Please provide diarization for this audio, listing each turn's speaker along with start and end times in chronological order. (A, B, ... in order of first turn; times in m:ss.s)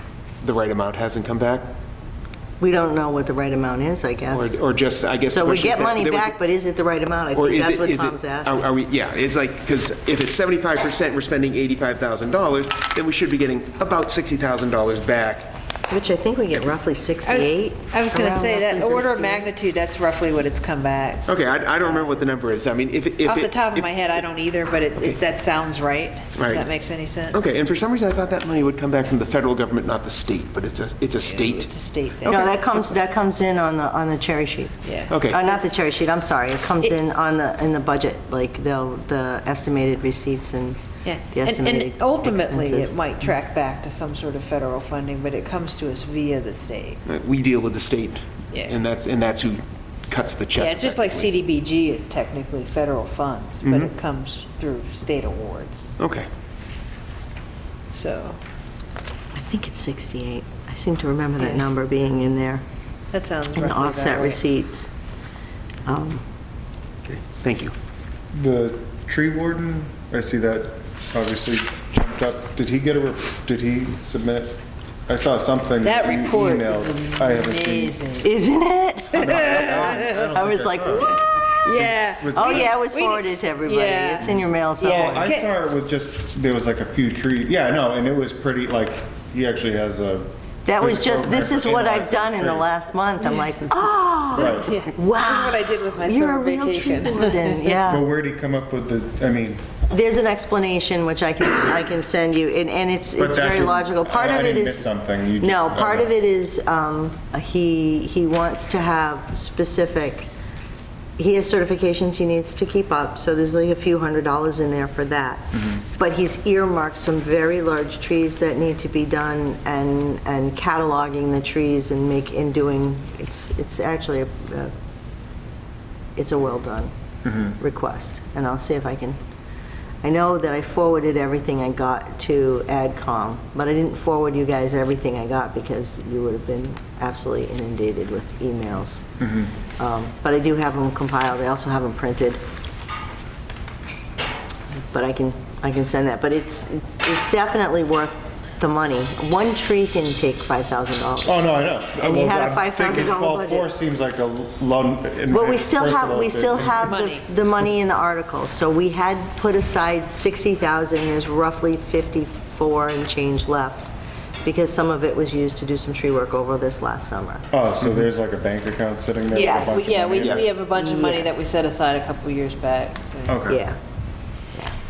0:00.4-0:01.7 A
0:02.6-0:04.6 B
0:04.3-0:06.4 A
0:05.2-0:08.6 B
0:07.3-0:15.5 A
0:15.9-0:19.5 B
0:17.2-0:21.3 C
0:21.3-0:24.1 A
0:23.2-0:27.4 C
0:26.4-0:26.7 A
0:27.3-0:32.9 A
0:31.2-0:32.6 C
0:32.3-0:34.8 B
0:34.8-0:35.6 C
0:35.1-0:35.4 A
0:35.3-0:40.8 B
0:41.0-0:47.0 C
0:41.3-0:42.9 B
0:47.1-0:51.4 A
0:48.5-0:48.8 C
0:50.6-0:55.9 C
0:53.6-0:53.9 A
0:56.0-0:56.3 A
0:57.9-0:58.4 C
0:59.4-1:02.6 B
1:03.1-1:04.4 C
1:03.6-1:04.9 B
1:05.8-1:06.2 B
1:07.1-1:07.7 A
1:08.3-1:18.0 D
1:15.8-1:18.3 C
1:18.2-1:21.2 B
1:19.1-1:21.2 D
1:19.2-1:20.2 C
1:21.6-1:24.3 C
1:22.2-1:22.8 D
1:22.3-1:25.3 B
1:24.2-1:32.7 D
1:24.8-1:25.5 C
1:30.7-1:38.0 B
1:34.3-1:37.8 C
1:34.4-1:34.7 D
1:37.9-1:39.8 D
1:39.9-1:44.8 B
1:43.2-1:46.1 D
1:45.4-1:50.3 B
1:51.2-2:04.7 B
1:55.5-1:55.8 D
2:06.2-2:06.9 B
2:07.2-2:07.6 D
2:07.6-2:09.2 B
2:10.0-2:19.0 B
2:19.2-2:19.5 D
2:19.8-2:22.4 B
2:24.9-2:31.4 B
2:31.2-2:36.9 D
2:32.0-2:33.7 B
2:35.3-2:43.9 B
2:36.8-2:37.2 C
2:44.4-2:47.5 B
2:47.5-2:50.5 D
2:49.3-2:53.4 C
2:49.4-2:49.9 B
2:50.2-2:50.5 A
2:50.6-2:51.4 B
2:53.3-2:53.6 D
2:53.5-2:53.8 B